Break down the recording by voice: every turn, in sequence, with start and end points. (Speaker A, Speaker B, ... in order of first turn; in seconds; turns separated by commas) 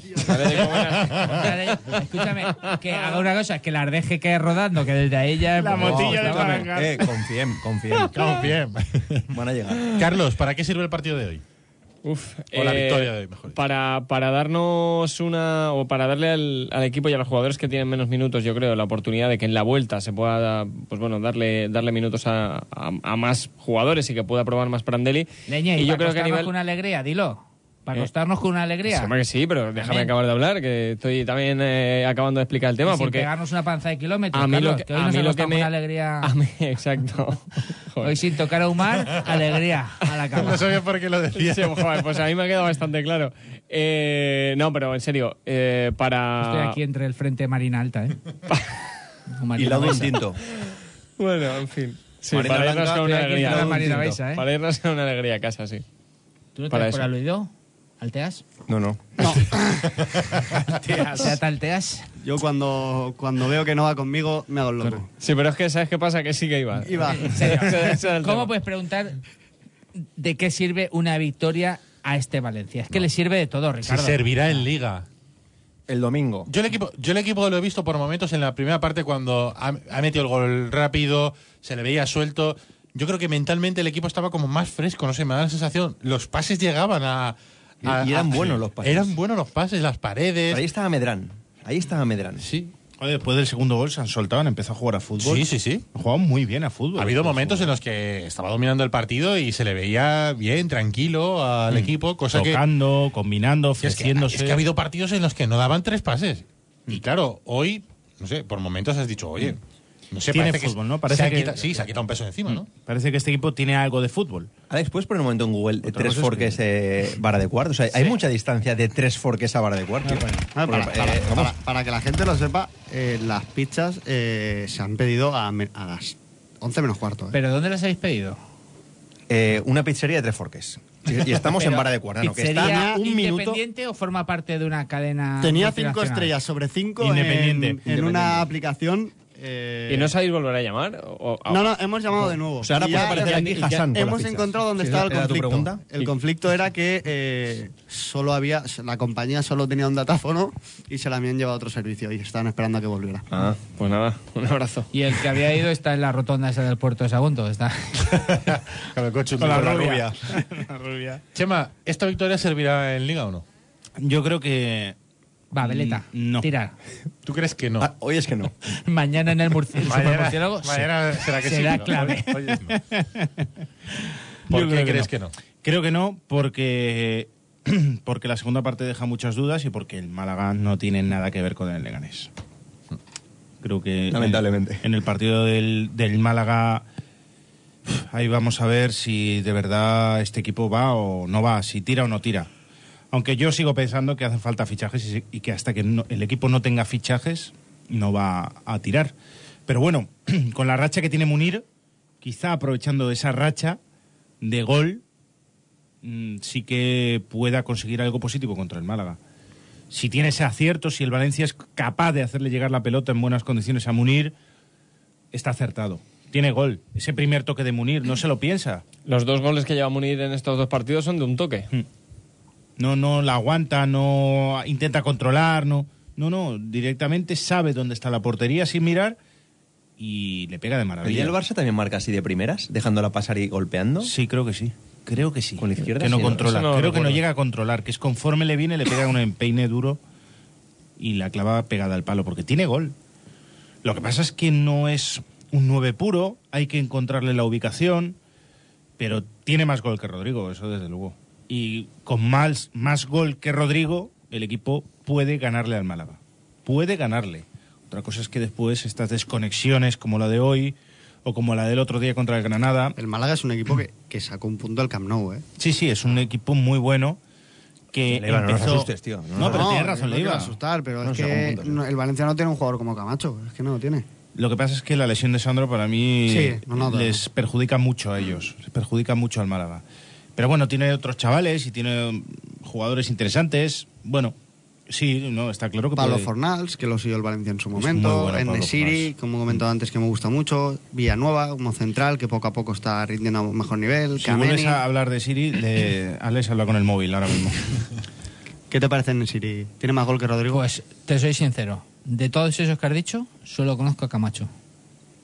Speaker A: 0.1-2.7, Speaker B: 0.7-1.4, Speaker C: 1.2-6.7, Speaker D: 5.5-7.1, Speaker E: 5.8-8.3, Speaker B: 8.1-9.3, Speaker E: 9.3-9.9, Speaker B: 9.9-11.4, Speaker A: 12.0-26.5, Speaker B: 12.5-13.6, Speaker C: 25.5-29.1, Speaker A: 28.9-33.3, Speaker C: 29.8-30.1, Speaker C: 32.8-36.3, Speaker A: 34.3-38.2, Speaker C: 38.0-40.6, Speaker B: 40.3-42.1, Speaker A: 41.3-46.8, Speaker C: 46.4-48.2, Speaker C: 49.3-50.2, Speaker E: 49.5-50.4, Speaker A: 51.2-55.8, Speaker E: 52.3-54.2, Speaker C: 53.0-54.4, Speaker C: 56.5-58.4, Speaker A: 56.7-57.1, Speaker E: 58.7-59.3, Speaker F: 59.2-59.9, Speaker B: 60.1-60.4, Speaker D: 60.8-61.3, Speaker C: 60.9-62.1, Speaker F: 62.2-65.1, Speaker A: 65.2-68.5, Speaker F: 66.8-67.5, Speaker C: 67.1-69.2, Speaker C: 70.2-74.6, Speaker B: 73.8-75.0, Speaker E: 75.9-76.5, Speaker B: 76.5-90.6, Speaker E: 87.8-89.1, Speaker E: 90.5-92.5, Speaker B: 92.4-92.7, Speaker D: 93.0-97.7, Speaker B: 95.2-95.8, Speaker B: 97.0-102.6, Speaker D: 101.7-104.7, Speaker B: 103.8-109.6, Speaker B: 110.1-112.7, Speaker D: 110.3-111.9, Speaker D: 112.5-114.5, Speaker E: 114.7-121.5, Speaker D: 115.8-116.6, Speaker F: 120.5-127.3, Speaker C: 127.3-128.4, Speaker E: 129.3-133.6, Speaker C: 131.6-136.3, Speaker F: 132.6-132.9, Speaker F: 135.4-140.1, Speaker D: 137.0-137.8, Speaker A: 139.9-141.8, Speaker F: 141.5-153.2, Speaker E: 142.6-145.8, Speaker A: 142.8-143.8, Speaker E: 153.3-153.6, Speaker A: 153.7-154.9, Speaker C: 154.9-158.3, Speaker B: 158.1-160.0, Speaker D: 159.4-161.2, Speaker E: 159.6-160.1, Speaker B: 161.3-163.4, Speaker D: 164.0-164.9, Speaker C: 165.5-166.7, Speaker D: 165.6-166.5, Speaker B: 167.2-167.9, Speaker E: 167.8-168.5, Speaker C: 168.8-172.4, Speaker B: 169.8-172.8, Speaker D: 172.7-173.3, Speaker B: 174.5-175.3, Speaker D: 174.5-175.1, Speaker D: 175.6-182.3, Speaker D: 183.6-186.8, Speaker E: 184.1-184.8, Speaker D: 187.9-192.5, Speaker D: 193.1-199.1, Speaker D: 199.7-201.6, Speaker D: 202.2-203.8, Speaker D: 204.4-205.0, Speaker D: 206.0-209.2, Speaker D: 209.9-214.3, Speaker D: 215.3-218.8, Speaker A: 219.1-221.7, Speaker D: 222.8-229.2, Speaker D: 230.0-231.3, Speaker E: 231.0-234.1, Speaker D: 234.0-240.0, Speaker E: 235.6-236.6, Speaker A: 236.2-237.2, Speaker D: 241.0-242.9, Speaker D: 243.8-248.2, Speaker D: 249.0-262.9, Speaker F: 263.0-265.4, Speaker D: 265.6-267.2, Speaker D: 267.9-270.6, Speaker E: 268.1-269.7, Speaker F: 269.4-274.1, Speaker E: 271.0-271.8, Speaker D: 274.3-279.8, Speaker F: 276.2-277.2, Speaker D: 280.4-284.3, Speaker D: 284.9-286.3, Speaker F: 285.9-294.8, Speaker D: 287.8-289.1, Speaker D: 294.2-297.8, Speaker F: 298.7-300.6, Speaker C: 300.5-304.5